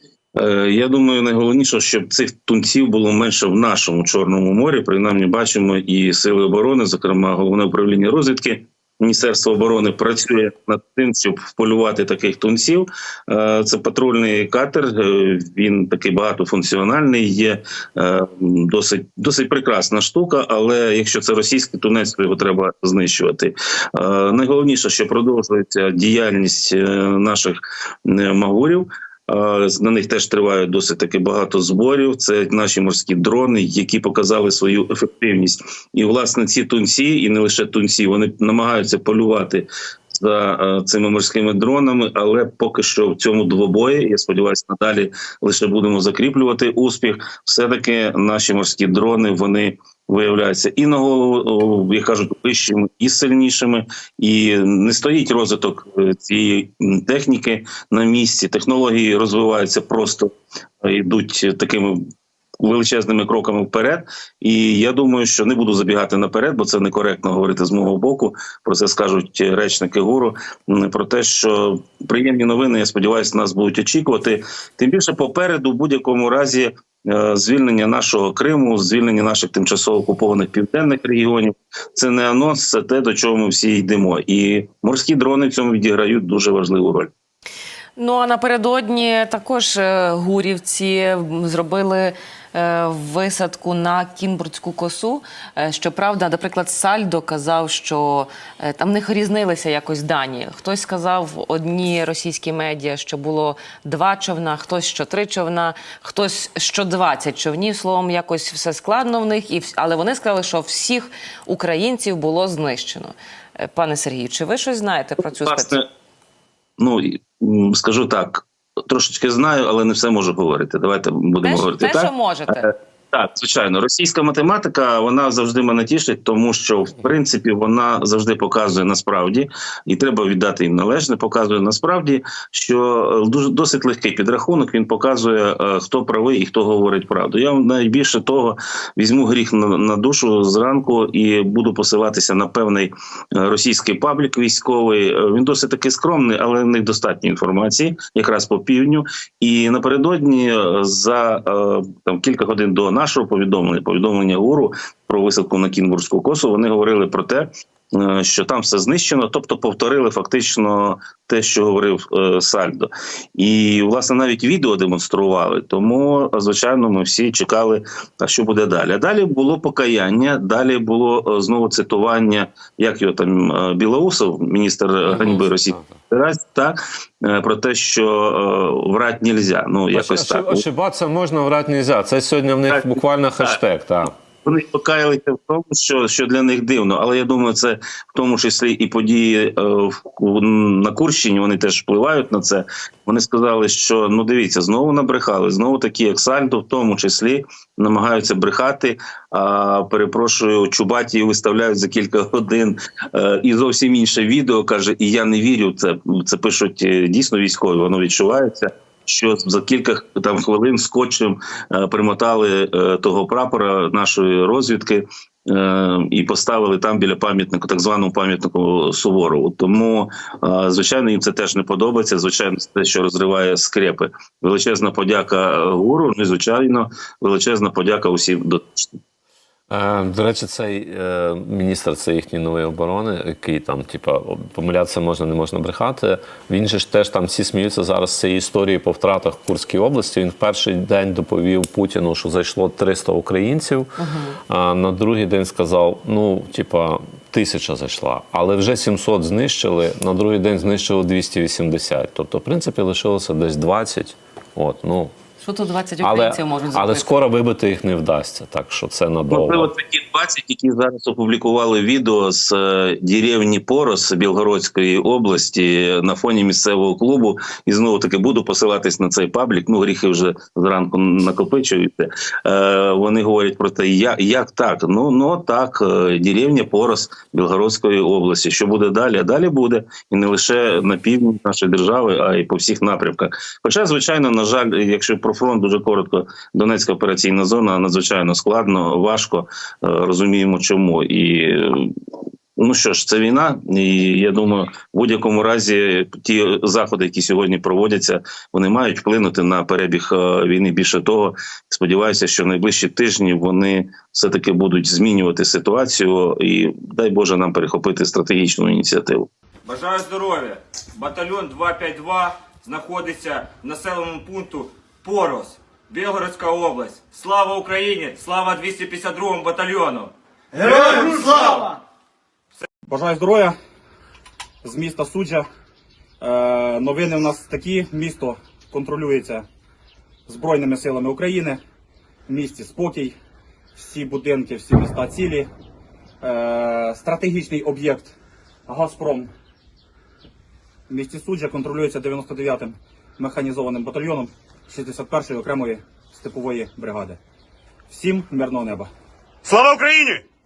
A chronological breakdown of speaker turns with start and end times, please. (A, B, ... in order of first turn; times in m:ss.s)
0:00.3-1:00.3 A
1:00.8-1:02.0 A
1:02.6-1:27.1 A
1:28.0-1:55.8 B
1:55.4-1:55.8 A
1:56.8-3:00.6 A
2:01.4-2:02.7 B
2:55.1-2:55.9 C
2:59.9-3:04.2 C
3:02.7-3:03.6 A
3:04.4-3:49.0 A
3:49.7-4:03.9 C
4:04.0-4:04.4 B
4:04.5-4:15.1 C
4:15.4-4:17.1 B
4:16.0-4:19.7 C
4:19.3-4:51.9 A
4:52.6-5:09.3 A
5:09.6-5:20.1 D
5:20.6-5:21.7 D
5:22.8-5:23.6 E
5:24.6-5:25.5 E
5:26.2-5:29.4 E
5:30.3-5:31.6 E
5:32.3-5:33.2 E
5:33.8-5:35.5 E
5:36.2-5:38.1 E
5:38.7-5:39.3 E
5:40.9-5:47.2 E
5:47.9-5:48.9 E